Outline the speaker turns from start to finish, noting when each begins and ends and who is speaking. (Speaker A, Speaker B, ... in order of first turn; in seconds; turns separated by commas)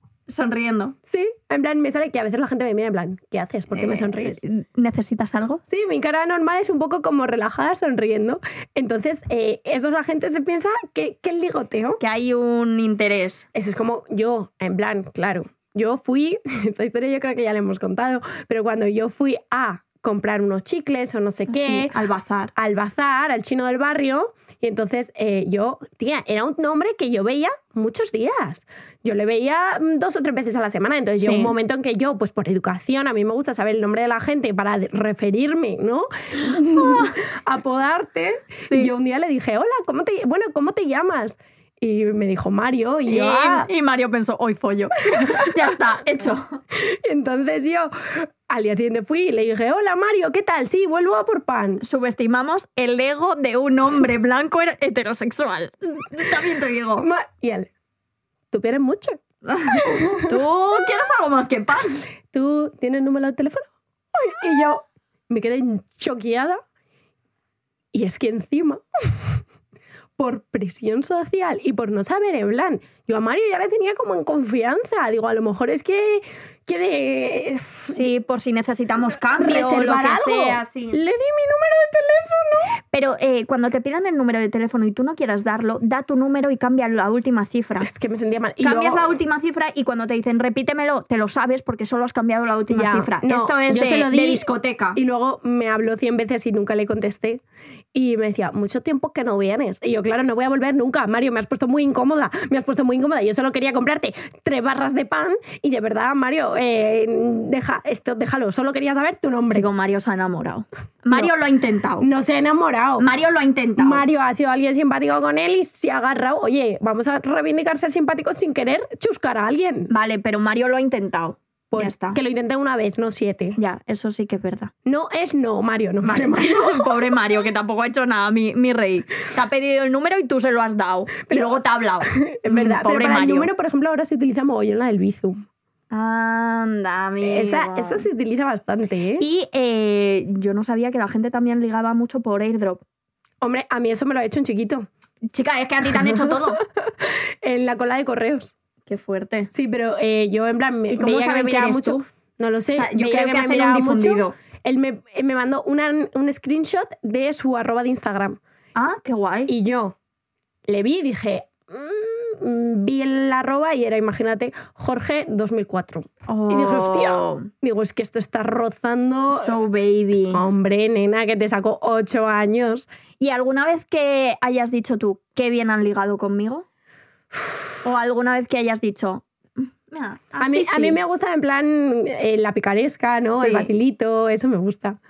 Speaker A: 0.3-0.9, Speaker B: 1.1-4.4, Speaker A: 3.7-5.6, Speaker B: 5.7-12.0, Speaker A: 12.0-13.5, Speaker B: 13.5-22.0, Speaker A: 21.5-22.5, Speaker B: 22.6-43.7, Speaker A: 31.2-31.5, Speaker A: 36.7-37.0, Speaker A: 38.6-38.9, Speaker A: 43.1-46.6, Speaker B: 46.7-51.8, Speaker A: 51.8-57.1, Speaker B: 57.0-57.7, Speaker B: 58.5-59.2, Speaker A: 59.5-62.0, Speaker B: 59.8-60.3, Speaker B: 62.3-66.6, Speaker B: 67.9-69.2, Speaker B: 70.2-78.1, Speaker A: 77.9-81.0, Speaker B: 79.4-82.8, Speaker A: 82.9-87.9, Speaker B: 87.8-89.2, Speaker A: 88.6-95.0, Speaker B: 92.7-97.4, Speaker B: 97.9-109.7, Speaker A: 109.5-112.1, Speaker B: 112.0-113.1, Speaker A: 113.0-114.0, Speaker B: 113.8-119.9, Speaker A: 119.9-122.2, Speaker B: 121.7-123.6, Speaker A: 123.6-124.7, Speaker B: 124.8-126.8, Speaker A: 126.0-133.5, Speaker B: 132.2-135.4, Speaker A: 135.9-138.1, Speaker B: 137.2-139.2, Speaker A: 139.2-142.8, Speaker B: 143.4-144.9, Speaker A: 145.3-146.6, Speaker B: 146.8-148.5, Speaker A: 148.9-149.5, Speaker B: 149.5-158.4, Speaker A: 150.9-152.0, Speaker A: 152.7-154.3, Speaker A: 158.7-159.5, Speaker B: 159.5-159.9, Speaker B: 160.7-169.5, Speaker A: 166.3-167.5, Speaker A: 169.3-170.4, Speaker B: 170.3-172.8, Speaker A: 173.2-176.6, Speaker A: 177.8-181.0, Speaker B: 180.4-185.0, Speaker A: 183.3-183.7